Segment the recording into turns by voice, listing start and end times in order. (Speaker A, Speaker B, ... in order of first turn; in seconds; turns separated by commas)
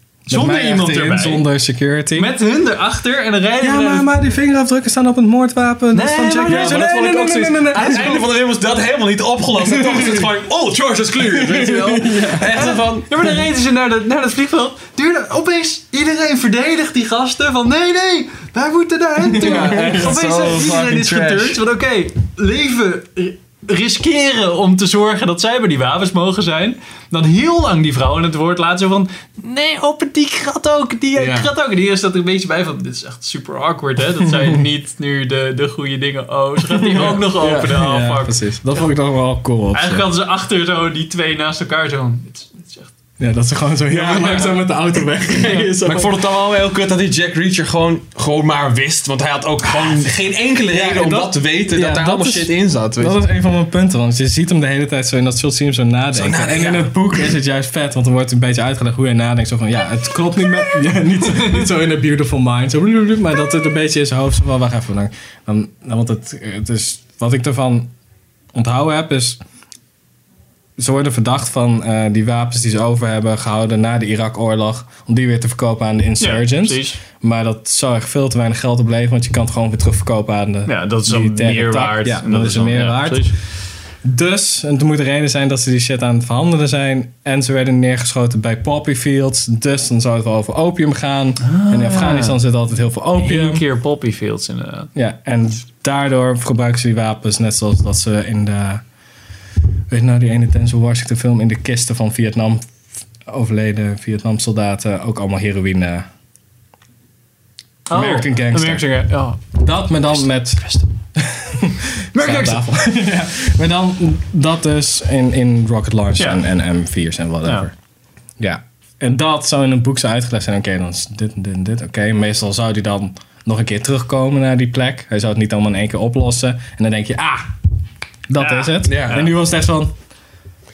Speaker A: 0.3-2.3, Speaker B: 0.3-1.4, Speaker B: 2.1-4.1, Speaker A: 3.6-8.2, Speaker B: 5.9-7.0, Speaker C: 6.5-13.3, Speaker B: 7.8-8.2, Speaker A: 9.7-10.2, Speaker A: 11.3-12.8, Speaker B: 13.1-38.3, Speaker A: 19.2-20.2, Speaker C: 19.4-21.6, Speaker C: 31.1-31.5, Speaker A: 36.6-40.0, Speaker C: 37.0-37.7, Speaker B: 39.7-42.9, Speaker A: 43.2-46.2, Speaker C: 43.9-44.6, Speaker C: 45.5-53.2, Speaker A: 50.7-67.9, Speaker C: 56.1-56.9, Speaker A: 68.5-69.4, Speaker A: 70.8-83.3, Speaker B: 76.2-77.0, Speaker B: 80.7-83.3, Speaker A: 84.0-93.6, Speaker B: 91.4-92.4, Speaker B: 93.2-94.9, Speaker A: 94.9-98.8, Speaker A: 99.9-102.7, Speaker A: 103.3-106.0, Speaker B: 107.9-109.5, Speaker A: 107.9-117.7, Speaker C: 112.1-112.6, Speaker A: 118.4-127.5, Speaker A: 128.3-129.9, Speaker B: 128.4-129.3, Speaker C: 128.8-129.2